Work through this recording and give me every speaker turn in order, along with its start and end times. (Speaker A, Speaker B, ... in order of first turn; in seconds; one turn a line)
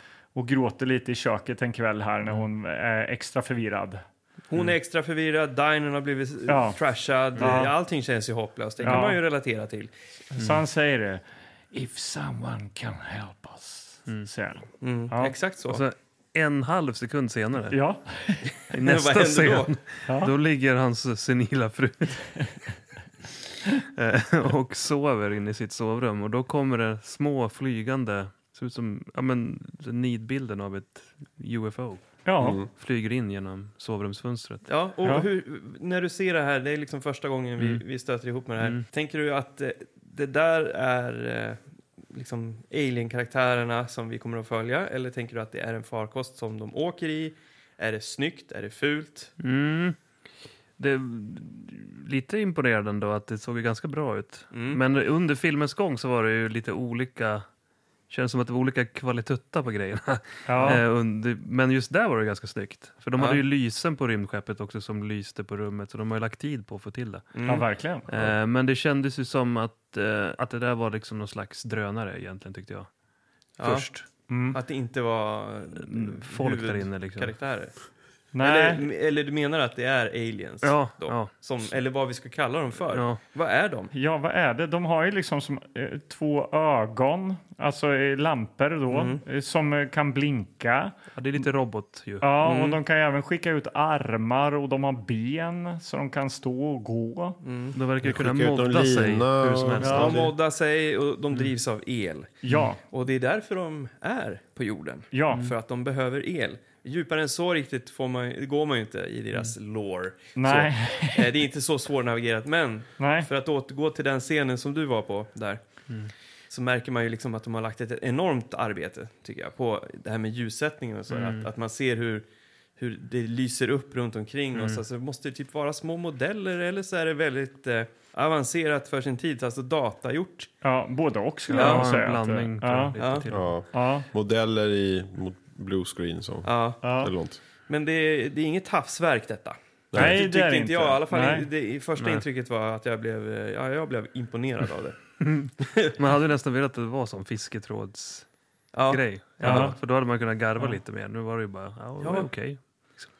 Speaker A: 0.3-4.0
Speaker B: 4.5-9.9
Speaker A: 6.5-6.8
Speaker C: 7.3-7.7
Speaker A: 7.4-7.7
Speaker C: 8.8-9.1
Speaker A: 8.8-9.2
Speaker A: 10.3-15.3
Speaker B: 14.8-15.8
Speaker C: 15.7-17.8
Speaker A: 17.7-18.5
Speaker C: 18.7-22.2
Speaker B: 18.8-19.7
Speaker A: 20.1-20.3
Speaker C: 23.9-34.7
Speaker A: 32.2-32.6
Speaker D: 32.4-32.7
Speaker B: 34.6-41.6
Speaker C: 37.6-37.8
Speaker C: 38.6-38.8
Speaker B: 42.1-49.3
Speaker C: 49.4-50.0
Speaker C: 50.8-57.5
Speaker B: 54.5-54.8
Speaker C: 58.1-67.3
Speaker A: 60.5-60.8
Speaker B: 63.1-63.4
Speaker B: 67.3-67.7
Speaker A: 67.5-68.1
Speaker C: 68.1-72.9
Speaker B: 73.6-77.7
Speaker C: 73.6-74.0
Speaker A: 74.3-74.6
Speaker C: 75.8-77.3
Speaker A: 78.3-78.8
Speaker B: 78.4-83.9
Speaker C: 80.6-81.3
Speaker C: 82.9-83.2
Speaker A: 83.9-91.0
Speaker B: 88.9-89.2
Speaker C: 91.1-92.3
Speaker A: 92.2-97.4
Speaker B: 92.4-92.8
Speaker B: 97.4-97.8
Speaker C: 97.7-100.3
Speaker D: 98.0-100.3
Speaker A: 99.8-100.2
Speaker B: 100.0-102.3
Speaker A: 102.4-102.8
Speaker B: 102.8-115.6
Speaker A: 105.1-105.4
Speaker A: 110.3-111.3
Speaker A: 113.0-113.3
Speaker B: 116.5-122.2
Speaker C: 121.1-121.5
Speaker B: 122.8-130.5
Speaker C: 124.5-124.8
Speaker A: 130.6-132.9
Speaker C: 131.5-133.6
Speaker B: 131.5-131.9
Speaker B: 133.0-133.2
Speaker D: 133.3-137.4
Speaker A: 133.7-134.1
Speaker B: 136.4-136.8
Speaker A: 136.8-137.1
Speaker B: 137.6-144.9
Speaker D: 139.9-140.2
Speaker A: 139.9-141.5
Speaker C: 142.0-142.2
Speaker C: 145.2-148.3
Speaker B: 145.6-145.9
Speaker B: 148.7-149.7
Speaker C: 148.9-153.1
Speaker A: 149.4-149.7
Speaker B: 152.0-152.3